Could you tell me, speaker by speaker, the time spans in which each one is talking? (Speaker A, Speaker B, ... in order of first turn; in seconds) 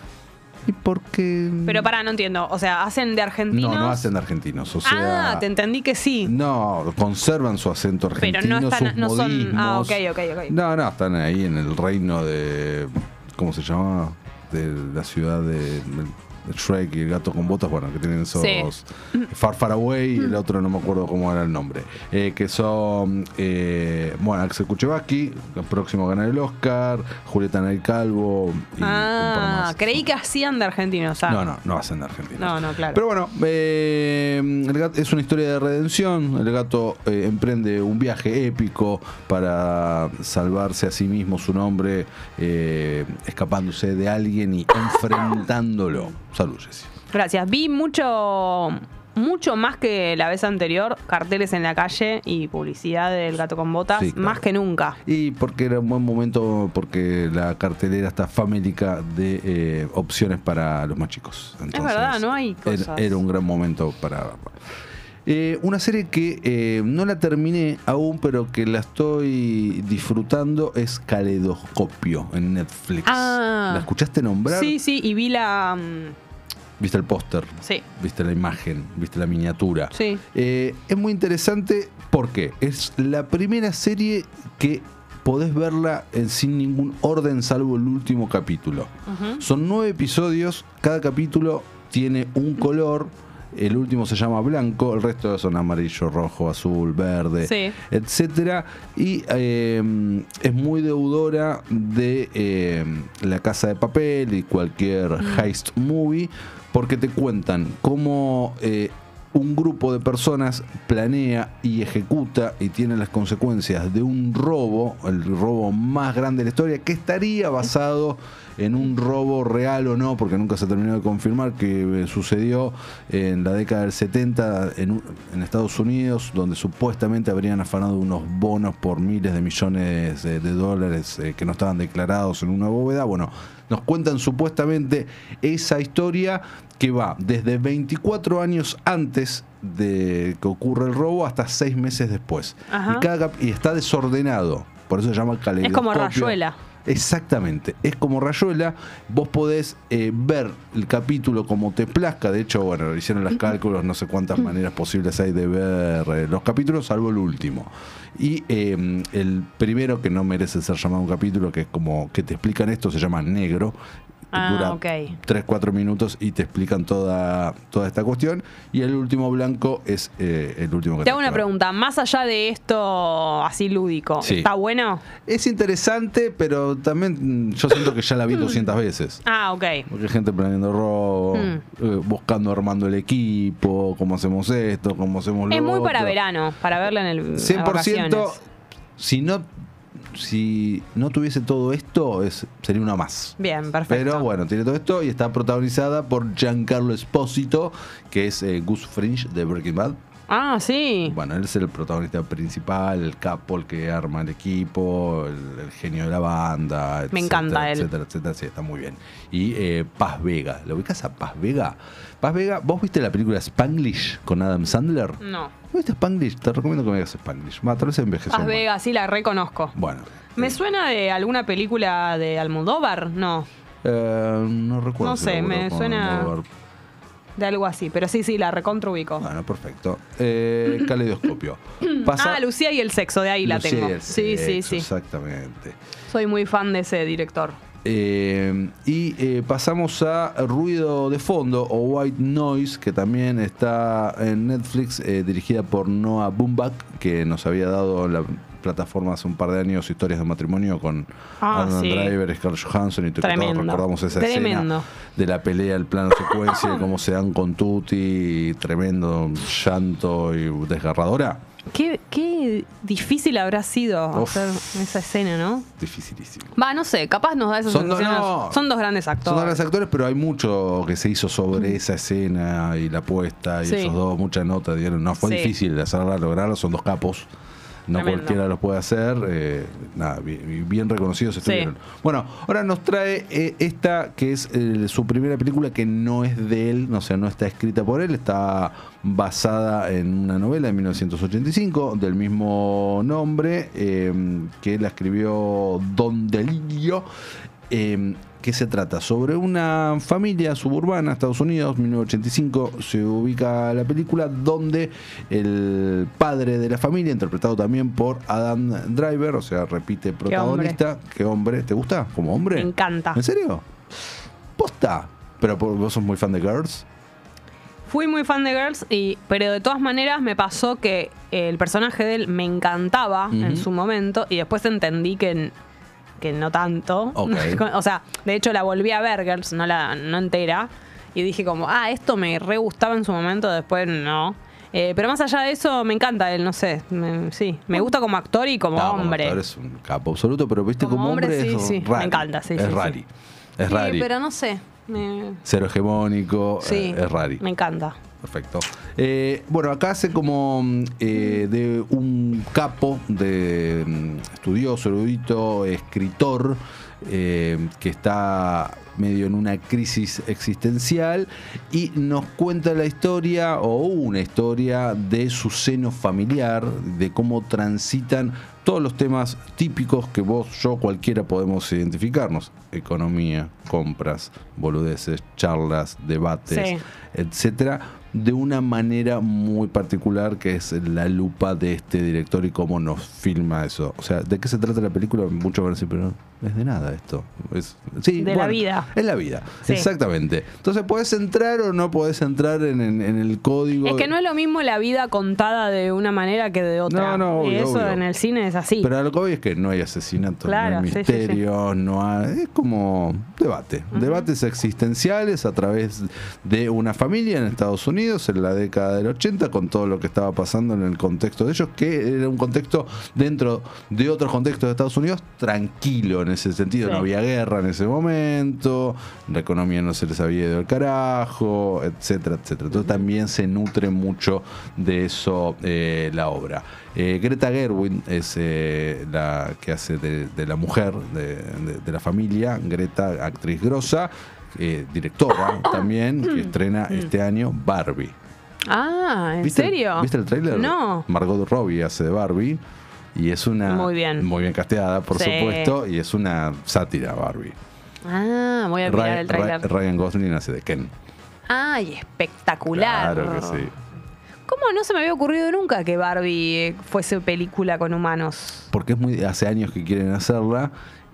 Speaker A: 0.7-1.9, 3.5-5.5, 6.2-30.0, 31.2-46.9, 54.0-54.4, 55.0-64.5, 65.2-74.8, 76.8-163.8, 164.3-171.5, 174.2-174.5, 175.2-179.2, 179.9-186.2, 187.3-188.4, 189.0-193.3, 193.9-199.9, 201.0-215.2, 215.7-218.7, 219.7-220.6, 223.8-226.4, 229.2-232.4, 233.4-235.8, 237.8-261.4, 264.1-264.7, 265.8-266.5, 267.7-268.6, 269.2-277.3, 277.9-297.1, 297.7-313.6, 314.6-316.8, 323.3-323.7, 327.1-327.6, 338.7-344.1, 345.4-347.4, 348.2-394.1, 396.9-398.0, 398.8-438.1, 439.4-442.6, 443.1-447.6, 448.8-450.9, 452.7-453.7, 458.7-460.7
Speaker B: 1.6-4.1, 4.8-6.3, 8.2-10.5, 18.3-18.7, 28.8-31.4, 32.4-33.0, 47.1-55.0, 61.7-63.2, 73.0-73.9, 74.5-76.2, 79.9-80.2, 89.1-89.4, 97.4-97.8, 105.2-105.5, 142.7-143.1, 145.6-146.6, 164.3-165.1, 171.0-175.0, 179.2-179.8, 181.3-181.6, 185.5-188.4, 193.4-194.3, 200.3-201.2, 207.1-207.9, 215.2-215.5, 218.3-219.7, 220.3-223.5, 225.0-226.3, 227.4-229.3, 231.9-234.9, 236.1-237.6, 251.4-252.1, 253.2-254.9, 261.7-265.7, 266.6-269.6, 273.6-273.9, 275.2-275.5, 277.9-278.4, 281.4-281.7, 310.3-310.8, 312.5-313.2, 317.9-325.5, 326.2-339.4, 340.8-343.0, 343.7-345.4, 346.6-348.0, 376.5-376.8, 388.2-388.9, 393.8-398.9, 400.4-401.4, 403.9-404.3, 435.4-437.1, 438.7-441.1, 443.6-444.3, 445.1-445.7, 448.0-449.7, 451.5-453.7, 454.5-458.7